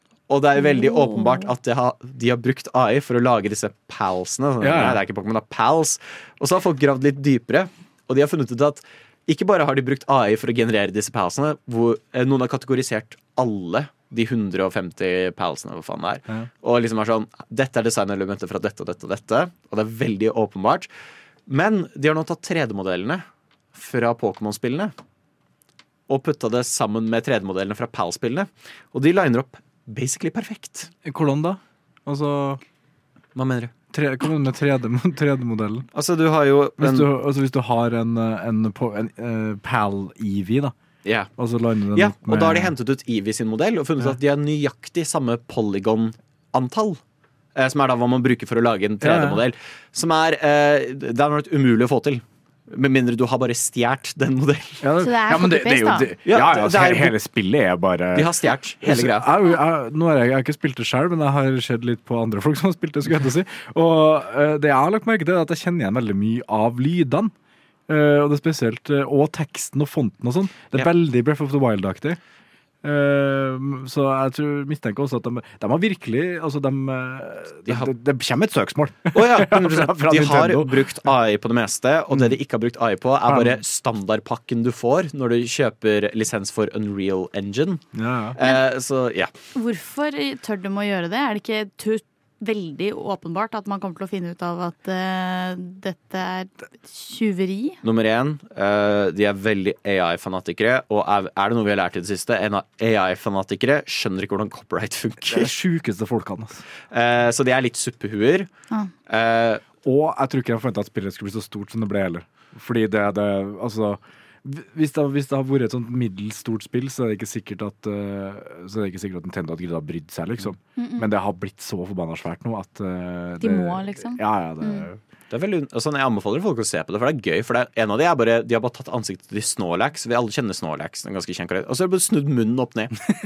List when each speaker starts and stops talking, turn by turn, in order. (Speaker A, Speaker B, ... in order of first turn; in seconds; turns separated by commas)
Speaker A: 0.3-20.9, Speaker B: 0.6-1.5, Speaker C: 4.6-5.0, Speaker A: 21.5-24.9, Speaker A: 26.1-30.9, Speaker C: 31.0-32.6, Speaker A: 33.3-33.7, Speaker C: 33.9-35.9, Speaker A: 35.9-37.1, Speaker C: 36.8-40.7, Speaker A: 41.0-41.3, Speaker C: 41.4-42.7, Speaker A: 41.9-47.0, Speaker A: 47.5-54.8, Speaker C: 49.0-49.5, Speaker C: 54.8-67.3, Speaker B: 55.0-56.1, Speaker A: 56.2-57.1, Speaker A: 58.1-59.3, Speaker C: 67.9-72.2, Speaker C: 72.8-81.1, Speaker A: 79.1-89.3, Speaker C: 83.3-83.6, Speaker C: 87.9-88.4, Speaker B: 89.5-97.8, Speaker A: 97.8-105.5, Speaker C: 105.2-106.6, Speaker A: 106.9-108.5, Speaker A: 109.1-109.6, Speaker C: 109.8-125.0, Speaker B: 120.8-121.1, Speaker B: 123.4-124.8, Speaker A: 125.3-133.0